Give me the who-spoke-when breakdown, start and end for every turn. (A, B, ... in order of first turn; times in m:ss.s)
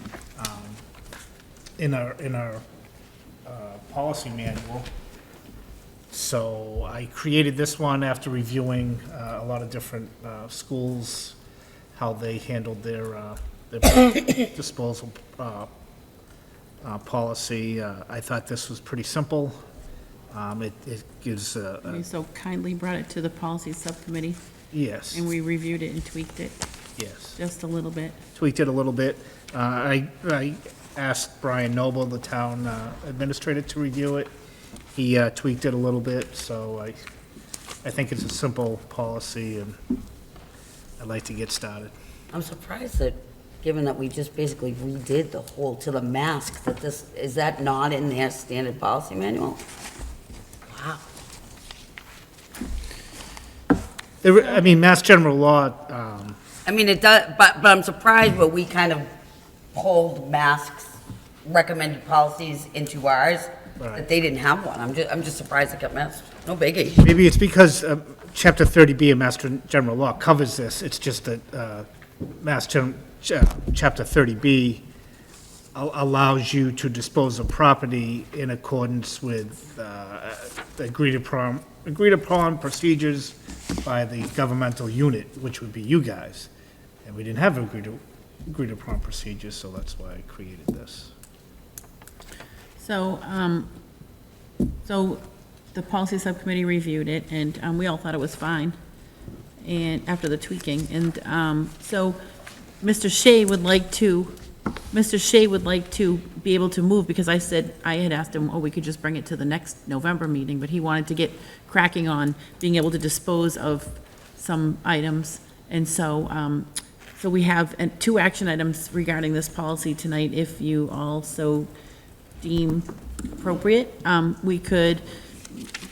0:00.4-0:00.8 A
0:01.8-0:02.6 A
0:03.4-0:04.9 A
0:06.1-0:11.4 A
0:11.9-0:15.7 A
0:16.8-0:19.6 A
0:20.3-0:22.0 A
0:21.9-0:24.4 B
0:24.7-0:25.3 A
0:25.1-0:26.6 B
0:27.0-0:27.4 A
0:27.4-0:28.2 B
0:28.4-0:34.3 A
0:35.0-0:37.0 A
0:37.8-0:39.8 A
0:41.0-0:41.9 A
0:42.3-0:49.6 C
0:50.7-0:51.0 C
0:54.2-0:56.4 A
0:56.7-0:59.1 C
0:59.7-1:07.1 C
1:03.8-1:04.1 A
1:07.0-1:11.9 A
1:12.4-1:14.8 A
1:15.8-1:26.5 A
1:27.0-1:31.1 A
1:32.8-1:33.7 B
1:34.9-1:35.2 B
1:35.7-1:38.8 B
1:39.6-1:42.2 B
1:42.8-1:44.4 B
1:44.9-2:01.7 B
2:02.4-2:05.6 B